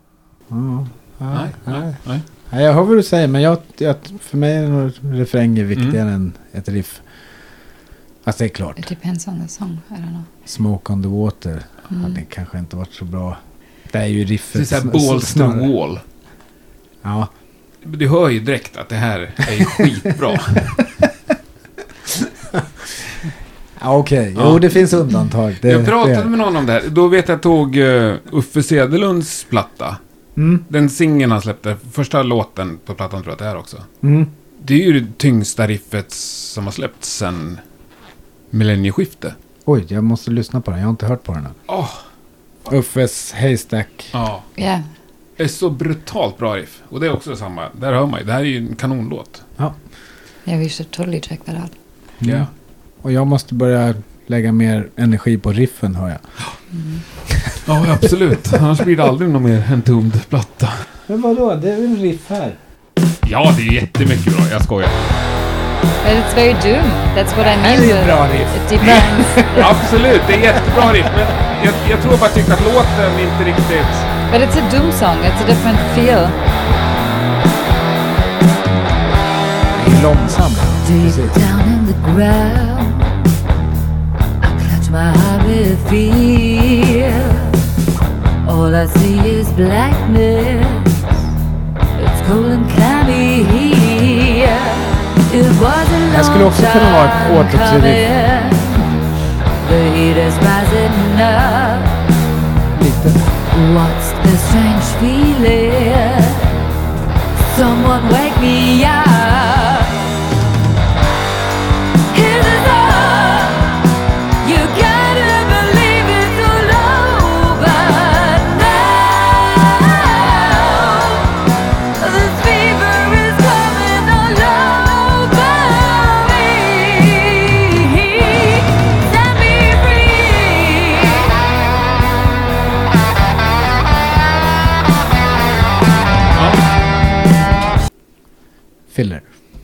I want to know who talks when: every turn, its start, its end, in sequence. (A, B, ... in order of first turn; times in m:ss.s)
0:00.5-0:02.0 A
0:01.3-0:02.2 B
0:02.5-0:07.0 A
0:08.2-0:08.9 A
0:08.8-0:10.3 C
0:10.4-0:13.4 A
0:11.9-0:12.2 C
0:13.9-0:15.7 A
0:14.5-0:16.0 B
0:17.0-0:17.3 A
0:17.8-0:20.8 B
0:22.1-0:22.7 A
0:23.8-0:26.3 A
0:24.4-0:24.6 B
0:25.6-0:30.0 B
0:30.4-0:30.6 A
0:30.7-0:33.9 B
0:34.0-0:34.3 A
0:34.6-0:37.6 B
0:38.5-0:39.4 B
0:39.6-0:41.6 A
0:41.7-0:42.0 B
0:42.6-0:44.1 A
0:44.1-0:44.4 B
0:44.6-0:44.8 C
0:45.4-0:49.4 B
0:50.4-0:51.7 C
0:52.2-0:52.5 A
0:52.2-0:52.5 B
0:53.0-0:56.2 A
0:56.7-0:57.0 C
0:57.3-0:58.1 A
0:57.6-1:00.8 B
1:01.1-1:02.6 A
1:03.2-1:05.0 B
1:06.0-1:09.8 C
1:07.5-1:09.7 A
1:08.8-1:14.1 B
1:10.8-1:11.0 A
1:14.3-1:16.4 C
1:19.7-1:21.4 A
1:20.8-1:23.1 D
1:24.4-1:27.6 D
1:28.4-1:31.1 D
1:32.0-1:38.9 D
1:36.1-1:38.0 A
1:39.6-1:42.0 D
1:42.8-1:43.2 A
1:43.5-1:46.6 D
1:47.4-1:50.1 D
1:52.1-1:53.9 D
1:54.4-2:01.5 D
2:02.0-2:11.3 D
2:16.3-2:16.6 B
2:18.9-2:19.3 A